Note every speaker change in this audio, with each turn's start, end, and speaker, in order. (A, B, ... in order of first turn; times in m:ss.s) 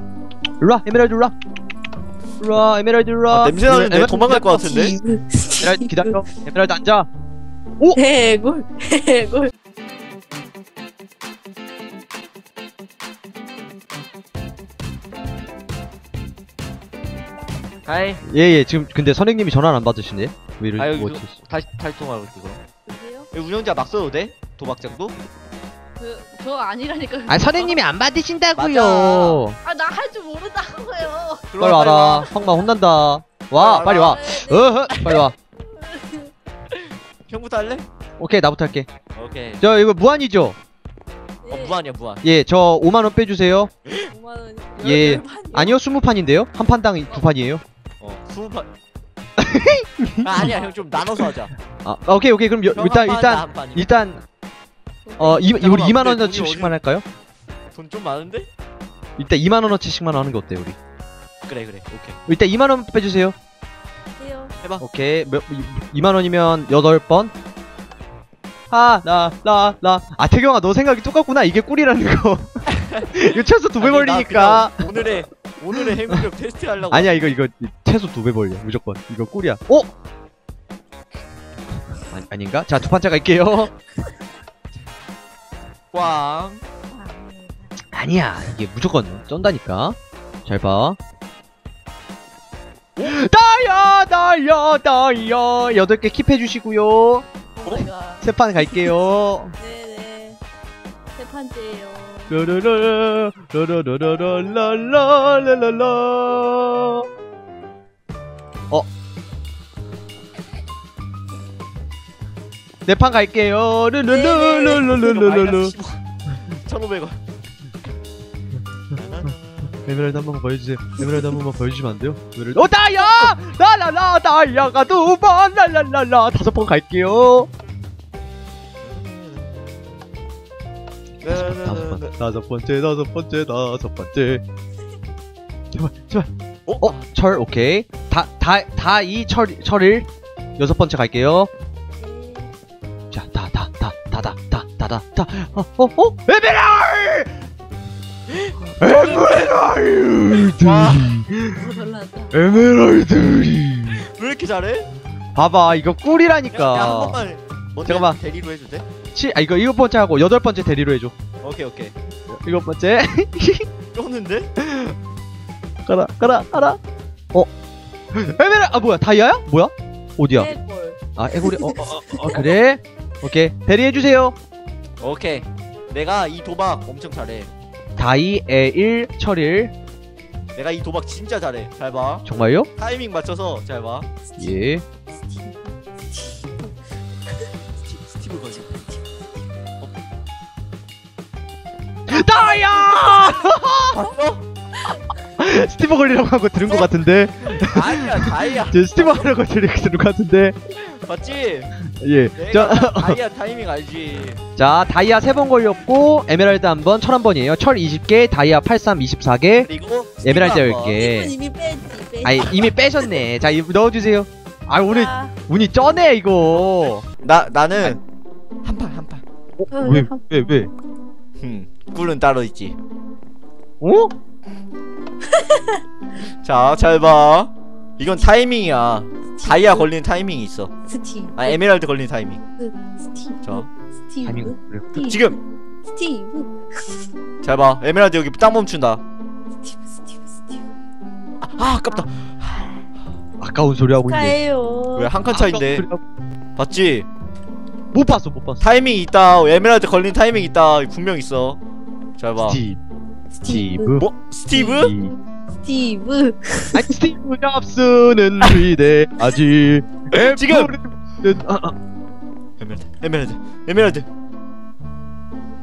0:00.6-0:01.4 A
0:02.4-0:04.7 A
0:03.3-0:05.0 B
0:04.5-0:06.2 C
0:05.6-0:07.1 A
0:07.9-0:09.5 C
0:17.9-0:18.2 B
0:18.2-0:21.4 A
0:20.8-0:22.6 B
0:22.9-0:23.3 C
0:23.3-0:25.1 B
0:26.0-0:27.8 C
0:27.3-0:29.6 A
0:28.6-0:29.5 B
0:29.6-0:31.5 C
0:31.5-0:32.3 B
0:31.6-0:35.4 A
0:33.6-0:34.2 B
0:33.6-0:36.3 C
0:37.3-0:37.8 B
0:38.2-0:38.9 A
0:39.2-0:39.6 B
0:39.6-0:40.6 A
0:41.4-0:41.8 C
0:41.5-0:42.2 B
0:42.2-0:43.7 A
0:44.1-0:45.8 C
0:44.8-0:47.6 A
0:48.0-0:48.7 B
0:49.4-0:50.6 A
0:50.2-0:51.5 B
0:50.4-0:50.8 C
0:51.8-0:54.2 A
0:52.7-0:53.9 B
0:55.1-0:55.5 C
0:55.2-0:57.0 A
0:55.4-0:56.8 B
0:57.7-0:58.5 B
0:59.2-1:00.8 A
1:01.4-1:02.2 B
1:02.3-1:03.4 A
1:04.2-1:04.5 C
1:04.8-1:07.3 A
1:08.7-1:15.2 A
1:13.8-1:17.3 B
1:16.9-1:19.9 A
1:22.0-1:23.8 A
1:25.9-1:26.6 B
1:26.9-1:27.6 C
1:27.9-1:31.0 A
1:33.0-1:37.3 A
1:37.6-1:38.9 C
1:38.2-1:39.6 A
1:39.6-1:40.4 C
1:41.2-1:42.4 C
1:42.3-1:47.0 A
1:52.9-1:55.7 A
1:54.1-1:56.0 B
1:56.5-1:57.2 B
1:58.9-1:59.4 B
1:59.9-2:07.5 A
2:08.8-2:09.6 B
2:11.2-2:12.1 B
2:11.3-2:14.4 A
2:15.7-2:16.3 A
2:16.7-2:17.0 B
2:16.8-2:21.5 A
2:22.0-2:22.5 C
2:23.1-2:27.5 A
2:28.3-2:29.3 B
2:28.8-2:31.8 A
2:30.5-2:31.2 B
2:31.6-2:32.3 C
2:32.3-2:34.0 A
2:34.1-2:34.9 B
2:35.4-2:37.2 A
2:36.5-2:38.9 B
2:37.8-2:38.2 A
2:39.1-2:41.2 A
2:41.4-2:42.0 B
2:42.3-2:43.7 A
2:43.9-2:44.5 B
2:44.6-2:45.0 A
2:45.9-2:46.8 A
2:48.1-2:50.6 A
2:50.3-2:51.0 C
2:51.2-2:54.4 A
2:51.5-2:51.9 C
2:55.0-2:57.5 B
2:58.0-2:59.7 A
3:00.6-3:02.2 B
3:02.2-3:02.7 A
3:02.8-3:04.1 B
3:04.4-3:04.8 A
3:05.2-3:06.7 C
3:07.9-3:08.9 B
3:12.1-3:14.0 A
3:13.9-3:14.4 B
3:15.4-3:20.6 A
3:16.6-3:16.9 B
3:17.7-3:19.2 B
3:20.8-3:21.7 B
3:21.8-3:23.2 A
3:22.4-3:24.4 B
3:24.6-3:29.7 A
3:29.6-3:31.0 B
3:30.2-3:31.4 A
3:30.9-3:33.2 C
3:32.2-3:37.0 A
3:34.9-3:35.3 C
3:37.2-3:38.0 B
3:38.6-3:39.2 B
3:39.6-3:40.7 A
3:39.7-3:40.4 C
3:41.4-3:42.8 B
3:43.8-3:44.1 A
3:45.4-3:45.8 C
3:46.4-3:50.7 B
3:49.4-3:49.9 C
3:50.9-3:51.6 C
3:51.4-3:52.4 B
3:52.6-3:57.1 C
3:54.2-3:55.0 A
3:55.0-3:55.4 B
3:57.4-3:59.0 B
3:59.6-4:00.7 C
4:01.4-4:02.7 B
4:03.4-4:04.4 A
4:04.0-4:05.1 C
4:05.0-4:05.8 B
4:05.3-4:06.0 A
4:06.6-4:07.1 B
4:07.9-4:08.6 A
4:08.6-4:11.6 B
4:12.2-4:12.6 B
4:12.4-4:12.8 A
4:13.3-4:14.8 C
4:13.4-4:14.0 A
4:14.0-4:14.9 B
4:14.6-4:15.2 A
4:15.6-4:16.9 C
4:16.7-4:21.8 A
4:20.2-4:20.7 B
4:22.6-4:24.1 B